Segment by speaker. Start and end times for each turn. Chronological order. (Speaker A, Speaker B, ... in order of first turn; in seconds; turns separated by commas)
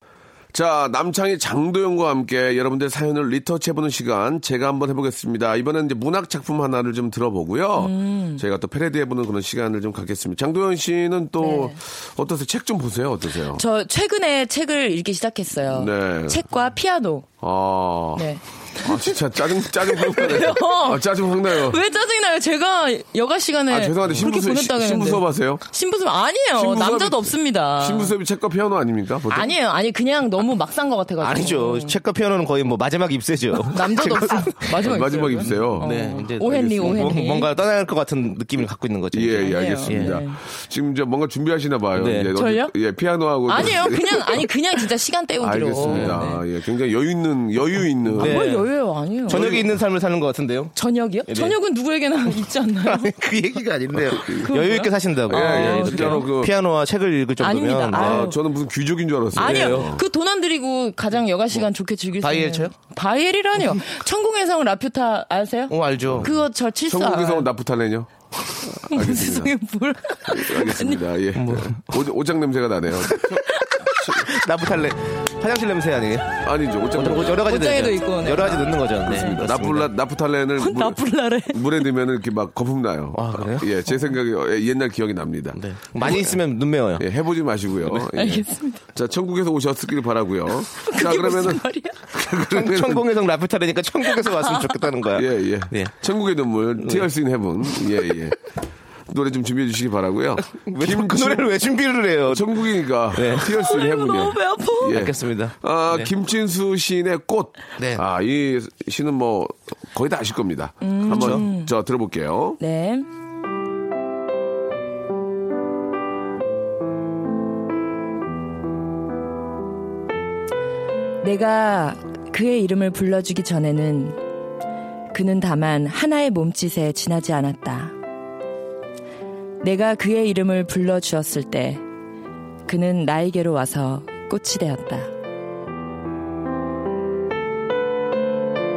Speaker A: 0.5-13.6, Speaker B: 7.8-8.4, Speaker B: 11.4-11.8, Speaker B: 13.5-17.3, Speaker A: 15.7-16.4, Speaker A: 17.4-18.3, Speaker B: 18.1-28.1, Speaker A: 18.8-21.8, Speaker A: 23.7-25.6, Speaker A: 26.5-29.5, Speaker B: 29.3-32.0, Speaker C: 31.2-34.7, Speaker B: 33.6-37.5, Speaker A: 34.8-37.2, Speaker C: 35.5-40.2, Speaker A: 39.1-44.4, Speaker B: 39.4-40.4, Speaker C: 42.0-42.3, Speaker B: 42.4-42.7, Speaker B: 43.5-46.4, Speaker A: 45.4-48.4, Speaker C: 45.9-46.2, Speaker C: 48.1-48.7, Speaker B: 48.2-49.5, Speaker C: 49.3-50.7, Speaker A: 49.3-49.8, Speaker B: 50.7-53.1, Speaker C: 51.3-51.5, Speaker C: 52.8-58.3, Speaker B: 54.2-56.3, Speaker A: 55.3-56.5, Speaker B: 57.4-58.4, Speaker A: 57.9-60.0, Speaker B: 59.4-67.5, Speaker C: 59.4-60.0, Speaker C: 62.2-62.7, Speaker C: 65.7-66.3, Speaker A: 66.9-68.1, Speaker A: 68.7-69.5, Speaker B: 68.9-71.0, Speaker A: 70.3-73.4, Speaker C: 71.3-71.9, Speaker C: 73.0-76.4, Speaker B: 73.5-74.1, Speaker A: 76.4-77.5, Speaker C: 76.9-79.9, Speaker B: 77.4-79.4, Speaker A: 79.1-86.4, Speaker B: 80.6-81.9, Speaker C: 83.1-83.7, Speaker C: 85.5-87.1, Speaker A: 87.0-93.0, Speaker B: 88.1-88.8, Speaker B: 90.8-92.0, Speaker C: 92.5-95.9, Speaker B: 94.1-94.8, Speaker A: 95.1-98.4, Speaker C: 96.8-97.1, Speaker A: 99.1-101.5, Speaker C: 100.5-103.5, Speaker A: 102.3-112.6, Speaker B: 103.5-105.0, Speaker C: 104.9-106.1, Speaker C: 107.8-108.0, Speaker B: 110.8-111.7, Speaker C: 111.1-111.4, Speaker B: 112.6-113.0, Speaker B: 121.2-124.2, Speaker B: 125.1-127.9, Speaker B: 129.6-131.8, Speaker B: 132.7-135.1